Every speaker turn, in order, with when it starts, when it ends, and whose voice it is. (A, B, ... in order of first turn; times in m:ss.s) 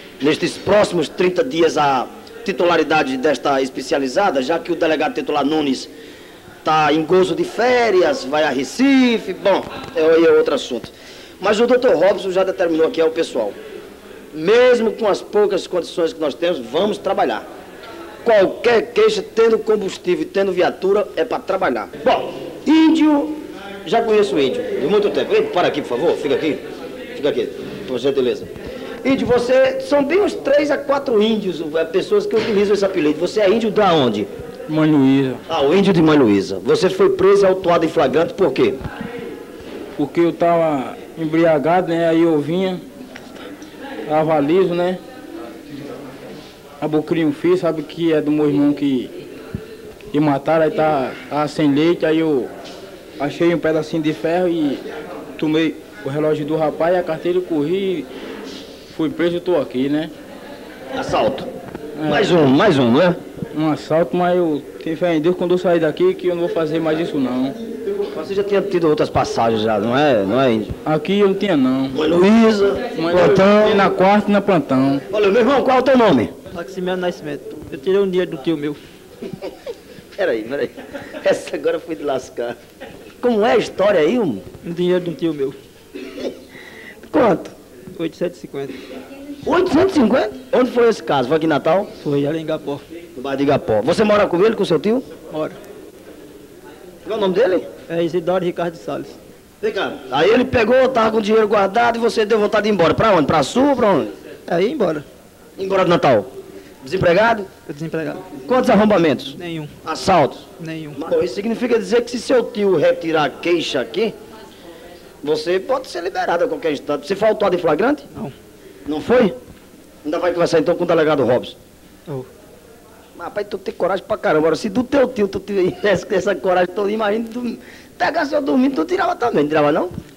0:00.2-0:05.9 A
0:06.6-0:13.6 A
0:14.3-0:17.5 A
0:18.2-0:26.6 A
0:27.2-0:28.5 A
0:29.0-0:34.3 A
0:34.7-0:35.4 B
0:35.5-0:38.8 A
0:40.0-0:42.8 B
0:44.1-0:45.0 B
0:46.8-0:49.1 B
0:50.1-0:52.5 B
0:53.2-0:54.8 B
0:55.4-0:58.1 B
0:58.9-1:00.1 B
1:00.9-1:01.5 A
1:02.0-1:02.5 B
1:02.1-1:03.2 A
1:03.5-1:07.6 B
1:08.1-1:10.7 A
1:10.8-1:12.0 B
1:11.9-1:13.8 A
1:13.0-1:15.0 B
1:15.1-1:16.3 A
1:16.5-1:18.8 C
1:20.2-1:22.6 A
1:23.2-1:24.4 A
1:24.6-1:25.6 C
1:27.1-1:27.5 A
1:27.9-1:28.8 C
1:29.4-1:31.9 A
1:32.0-1:32.8 C
1:33.2-1:35.1 A
1:35.3-1:35.6 C
1:37.0-1:37.7 A
1:37.9-1:39.2 C
1:39.6-1:44.1 A
1:44.5-1:45.1 C
1:45.6-1:46.3 A
1:46.8-1:47.5 A
1:47.6-1:48.3 C
1:48.4-1:50.5 A
1:49.4-1:49.8 C
1:50.6-1:51.0 C
1:51.0-1:54.1 A
1:55.2-1:58.1 A
1:58.9-1:59.3 A
2:00.0-2:01.6 A
2:03.2-2:09.9 A